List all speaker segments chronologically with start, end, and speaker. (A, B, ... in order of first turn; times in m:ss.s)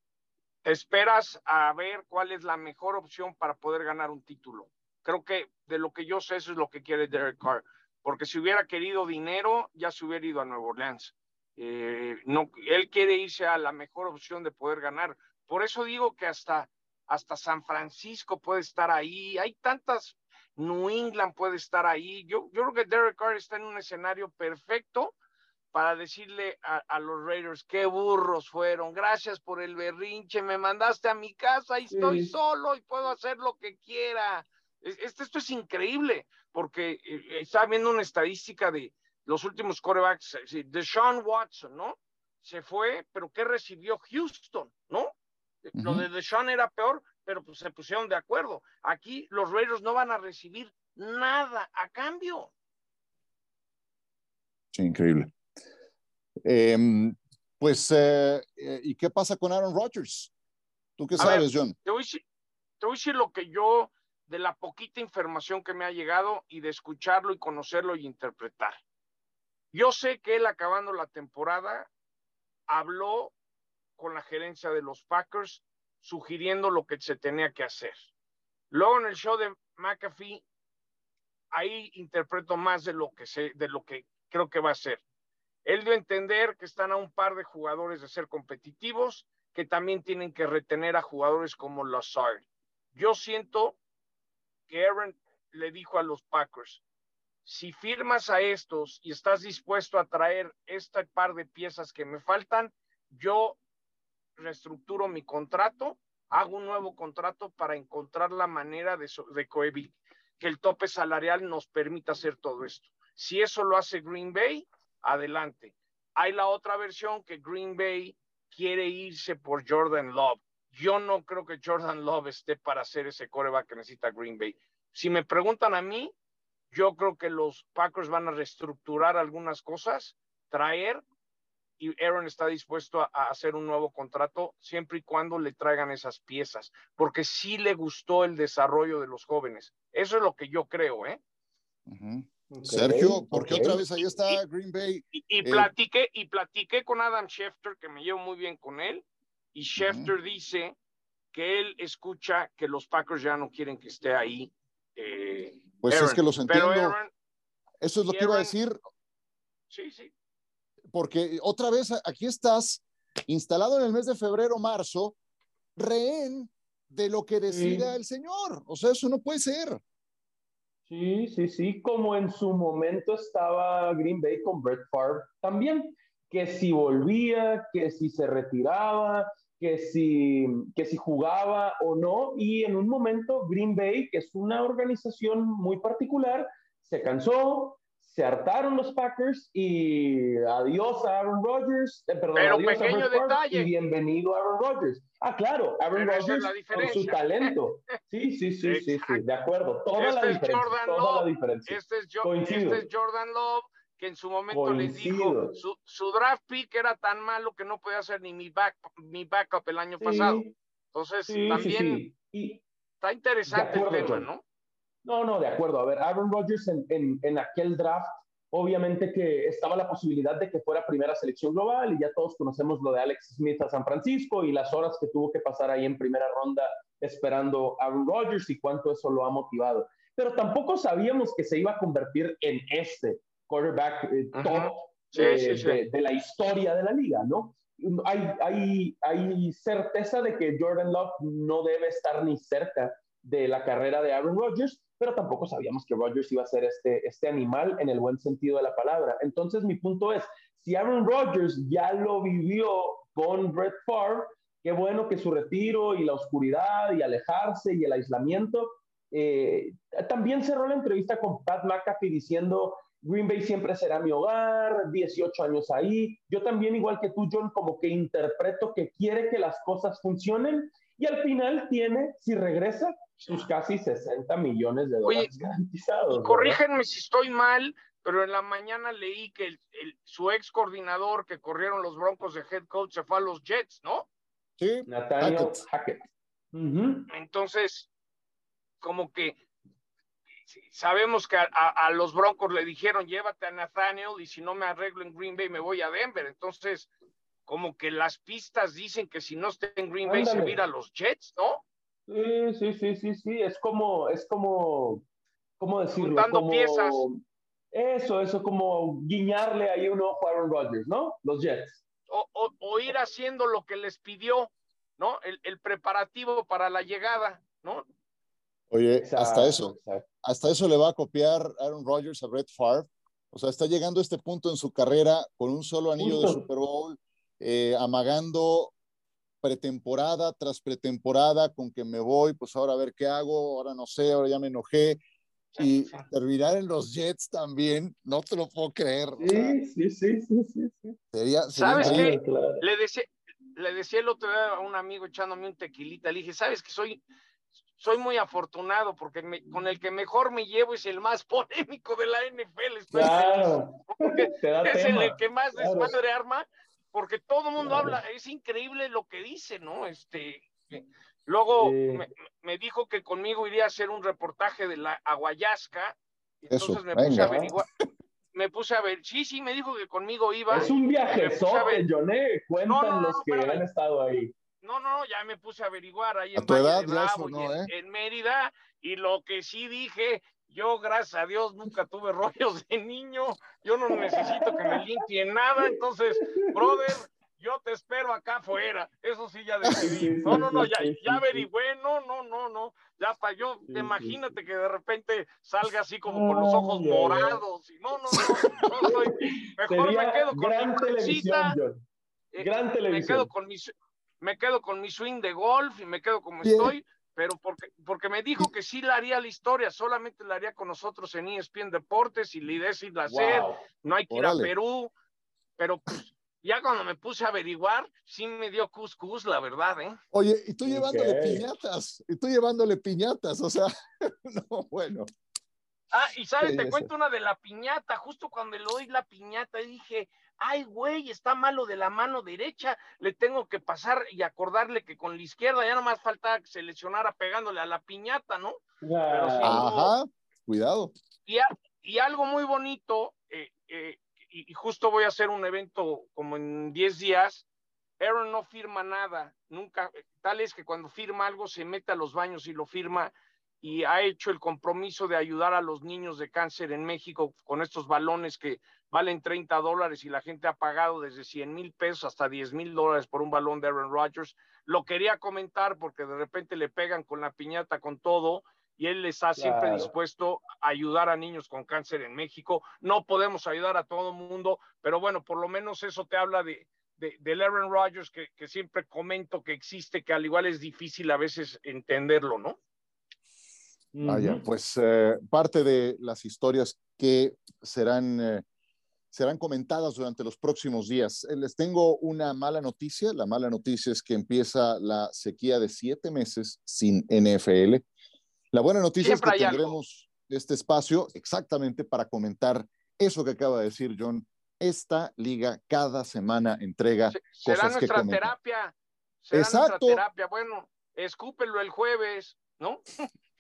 0:00.6-0:25.1 A
0:25.7-0:45.1 A
0:31.9-0:32.3 B
0:45.6-0:52.5 A
0:45.8-0:46.1 C
0:54.7-0:55.3 C
0:56.4-1:00.3 C
1:01.0-1:01.8 C
1:01.2-1:02.2 A
1:02.8-1:08.8 A
1:09.7-1:11.9 A
1:12.7-1:13.3 A
1:14.0-1:18.0 A
1:18.7-1:20.4 A
1:21.5-1:25.0 A
1:25.6-1:33.8 A
1:34.7-1:36.8 A
1:37.4-1:43.6 A
1:44.4-2:06.1 A
2:06.7-2:11.0 A
2:11.8-2:21.2 A
2:21.9-2:25.7 C
2:22.5-2:23.8 B
2:25.2-2:29.0 A
2:29.6-2:30.8 A
2:29.8-2:30.1 C
2:31.3-2:37.1 A
2:35.8-2:37.0 C
2:37.8-2:38.8 C
2:38.1-2:38.5 A
2:39.7-2:40.1 A
2:40.9-2:45.2 C
2:45.8-2:49.8 C
2:47.5-2:47.9 B
2:50.9-3:22.9 B
3:12.4-3:13.7 A
3:16.0-3:17.5 A
3:18.6-3:19.2 A
3:20.0-3:32.0 A
3:24.5-3:25.6 B
3:30.0-3:30.6 B
3:31.3-3:32.6 B
3:33.0-3:34.4 A
3:33.5-3:34.3 B
3:35.0-4:36.6 B
3:54.3-3:55.8 A
4:35.0-4:35.3 A
4:36.1-4:44.1 A
4:44.6-4:45.6 C
4:44.9-4:47.1 B
4:47.1-4:47.9 A
4:48.8-4:49.4 A
4:50.5-4:56.9 A
4:57.5-5:01.6 A
5:00.0-5:00.6 B
5:02.1-5:05.0 B
5:05.6-5:07.2 B
5:06.0-5:07.0 A
5:07.7-5:11.8 B
5:12.1-5:17.8 A
5:18.7-5:28.7 C
5:19.0-5:20.0 B
5:26.0-5:26.4 B
5:29.4-5:35.0 C
5:35.6-5:39.6 C
5:39.2-5:41.0 B
5:41.1-5:42.2 C
5:41.6-5:47.0 A
5:41.8-5:42.6 B
5:47.8-6:07.6 A
5:52.9-5:56.0 B
5:57.6-5:58.0 B
6:01.6-6:02.1 B
6:06.5-6:07.3 C
6:07.1-6:07.5 B
6:08.3-6:11.8 A
6:10.5-6:14.3 B
6:12.7-6:13.6 A
6:14.6-6:41.6 A
6:16.4-6:17.7 C
6:23.9-6:24.8 B
6:25.7-6:26.8 B
6:29.6-6:30.1 C
6:29.8-6:31.5 B
6:33.7-6:34.2 B
6:36.1-6:37.4 B
6:38.2-6:38.7 C
6:38.8-6:41.8 B
6:42.3-6:54.9 A
6:42.4-6:43.3 B
6:46.4-6:46.8 C
6:53.1-6:53.6 B
6:54.1-6:54.5 C
6:55.6-7:00.0 A
7:00.1-7:05.1 C
7:00.7-7:01.4 B
7:05.9-7:19.9 A
7:06.4-7:06.9 C
7:18.8-7:19.6 B
7:19.4-7:20.9 C
7:21.3-7:27.5 A
7:28.0-8:02.6 A
7:49.4-7:49.9 B
8:03.9-8:04.4 B
8:04.0-8:08.4 C
8:09.1-8:17.8 C
8:18.5-8:28.3 C
8:19.0-8:19.8 A
8:27.1-8:32.8 A
8:29.3-8:30.0 C